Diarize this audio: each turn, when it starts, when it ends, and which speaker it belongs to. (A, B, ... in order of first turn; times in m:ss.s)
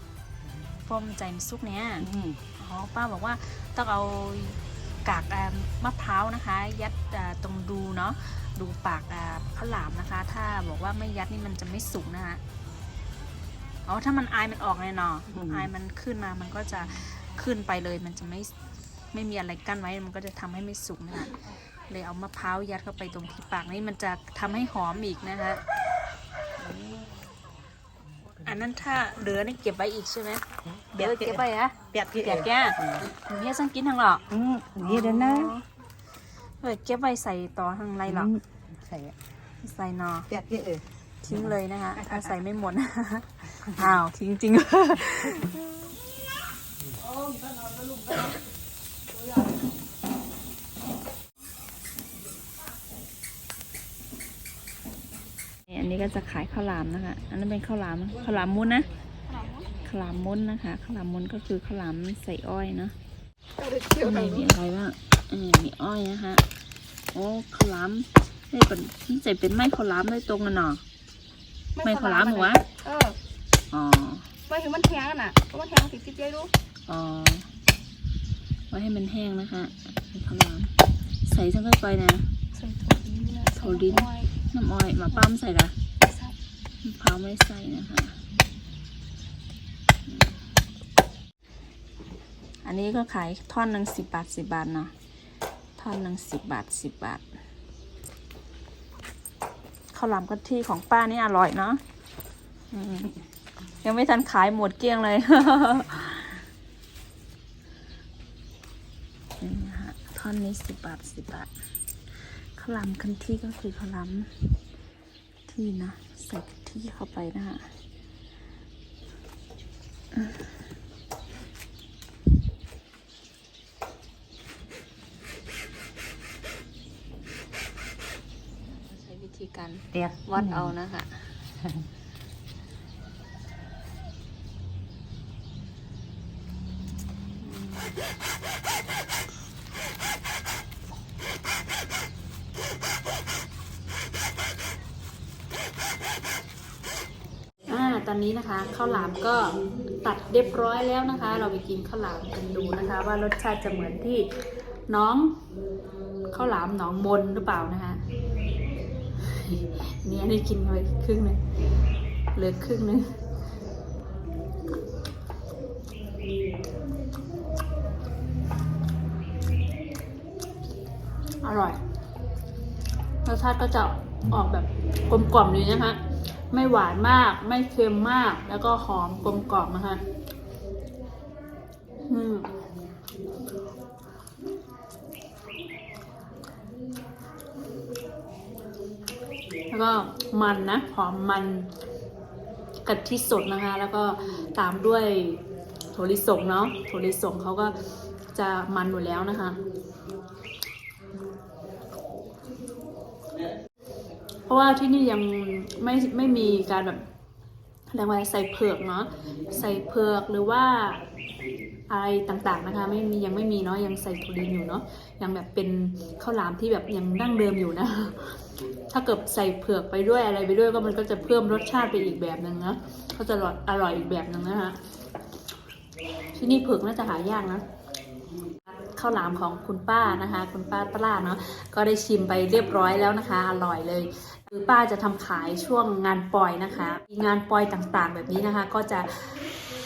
0:00.8-0:02.1 A
0:02.0-0:02.4 B
0:02.6-0:12.4 A
0:13.8-0:18.5 A
0:15.3-0:15.7 B
0:19.1-0:21.4 A
0:21.9-0:25.6 A
0:26.6-0:27.1 B
0:28.4-0:30.4 A
0:30.8-0:33.1 B
0:30.9-0:34.2 A
0:34.3-0:35.5 B
0:34.8-0:35.6 A
0:36.6-0:38.3 A
0:38.0-0:39.2 B
0:39.6-0:40.3 A
0:40.3-0:42.3 B
0:41.2-0:45.6 A
0:55.7-0:58.9 A
0:59.3-0:59.7 C
0:59.8-1:02.9 A
1:03.6-1:04.5 C
1:04.0-1:06.4 A
1:07.1-1:10.8 A
1:11.8-1:13.2 C
1:11.8-1:12.6 A
1:13.7-1:14.3 A
1:14.5-1:16.5 C
1:16.9-1:17.4 A
1:18.7-1:20.7 A
1:21.2-1:22.2 A
1:22.5-1:24.3 C
1:23.6-1:25.7 A
1:26.0-1:26.3 C
1:26.8-1:28.2 A
1:30.1-1:30.4 A
1:32.6-1:34.9 A
1:35.8-1:37.2 A
1:39.9-1:41.8 A
1:42.7-1:43.2 A
1:43.8-1:46.4 A
1:49.4-1:51.5 A
1:52.6-1:54.4 A
1:55.5-1:57.7 A
2:08.7-2:11.3 A
2:09.9-2:10.7 B
2:17.4-2:18.0 A
2:27.7-2:34.3 A
2:34.9-2:35.4 A
2:36.3-2:38.0 A
2:39.2-2:41.4 A
2:42.3-2:43.0 A
2:51.4-2:51.8 A
2:53.2-2:56.0 A
2:56.5-3:00.0 A
3:02.1-3:02.5 A
3:09.7-3:11.7 A
3:12.8-3:15.4 A
3:15.9-3:17.7 A
3:18.3-3:19.6 A
3:24.5-3:27.0 A
3:27.9-3:31.0 A
3:31.9-3:38.4 A
3:38.9-3:44.8 A
3:46.3-3:47.6 A
3:48.7-3:59.4 A